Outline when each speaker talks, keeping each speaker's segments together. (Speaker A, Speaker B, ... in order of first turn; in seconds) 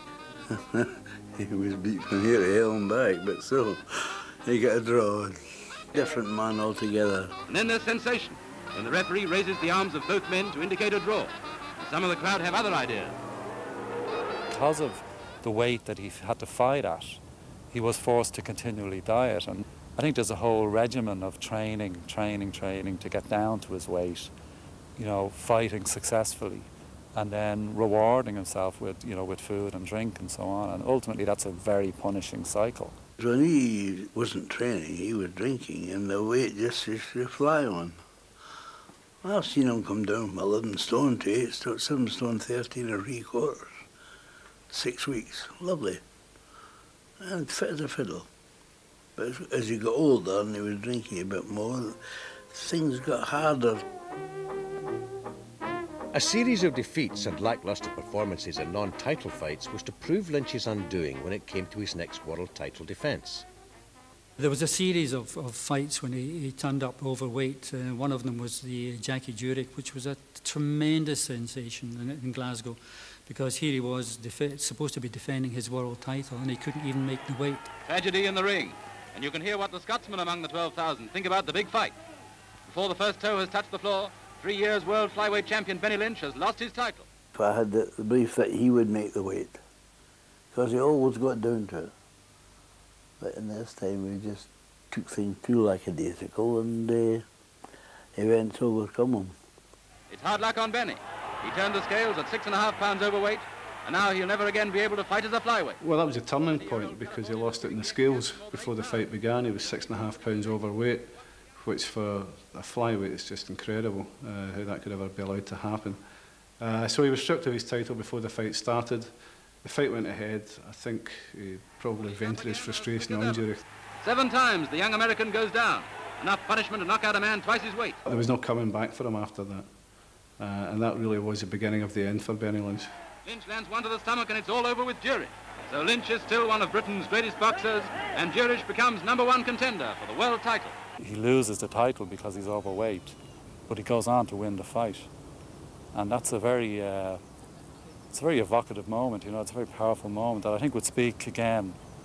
Speaker A: 0.5-7.3, 33.2-38.0, 39.2-43.7, 44.7-46.0, 47.2-48.3, 49.2-52.0, 52.5-53.9, 87.3-89.6, 90.5-91.9, 93.2-97.2, 98.2-99.4
Speaker B: 7.5-13.2, 77.9-82.0, 82.7-87.1, 100.1-105.8, 106.5-109.1, 122.0-123.5, 124.0-128.0, 133.2-140.8
Speaker C: 14.5-24.3, 25.0-33.0, 141.0-145.1, 145.9-147.2, 148.1-151.8
Speaker D: 56.1-63.5
Speaker E: 64.4-77.7
Speaker F: 105.8-116.0, 116.6-123.6, 128.1-129.7, 130.4-132.9